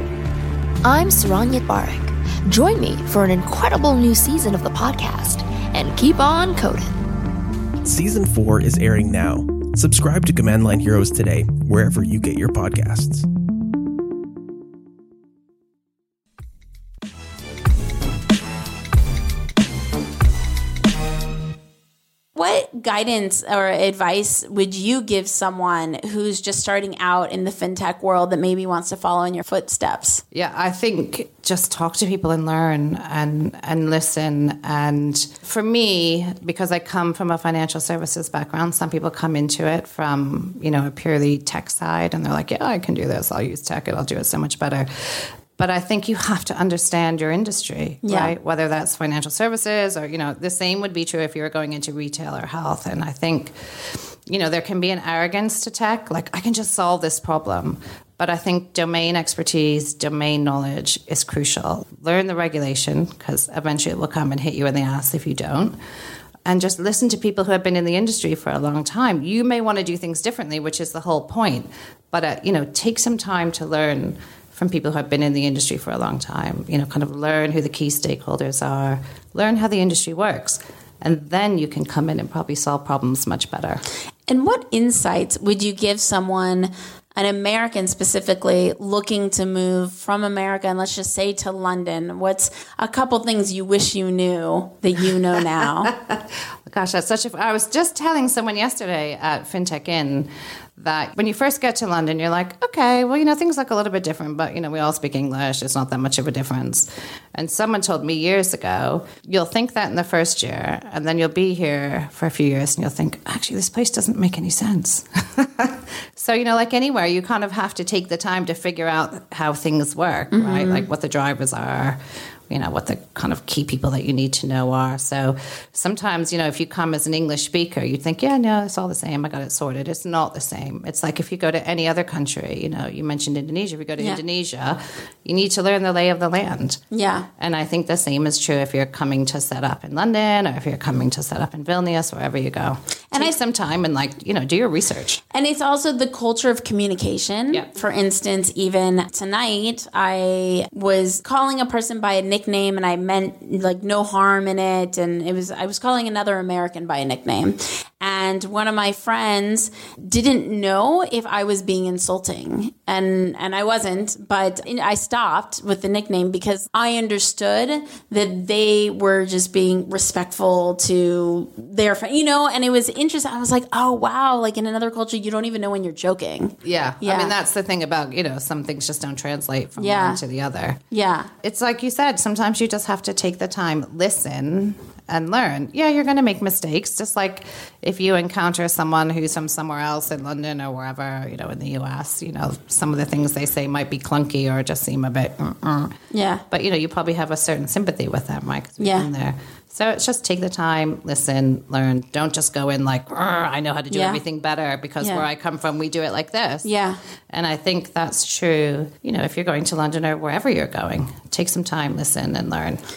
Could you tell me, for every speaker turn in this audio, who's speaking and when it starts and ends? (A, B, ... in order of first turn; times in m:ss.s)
0:00.8-0:07.0 A
0:07.8-0:13.3 B
0:22.4-0:30.2 C
0:30.3-0:53.5 D
0:48.0-0:48.3 C
0:54.3-1:05.8 D
1:06.5-1:23.8 D
1:24.3-1:35.9 C
1:35.9-2:02.0 D
2:00.3-2:00.9 C
2:02.5-2:16.8 D
2:16.9-2:17.3 C
2:17.4-2:25.2 D
2:25.3-2:57.3 C
2:56.6-3:00.8 D
2:59.8-3:00.2 C
3:00.9-3:01.3 C
3:01.4-3:16.0 D
3:16.1-3:16.4 C
3:16.5-3:26.7 D
3:18.8-3:19.1 C
3:23.9-3:24.2 C
3:26.6-3:27.0 C
3:27.3-3:32.8 D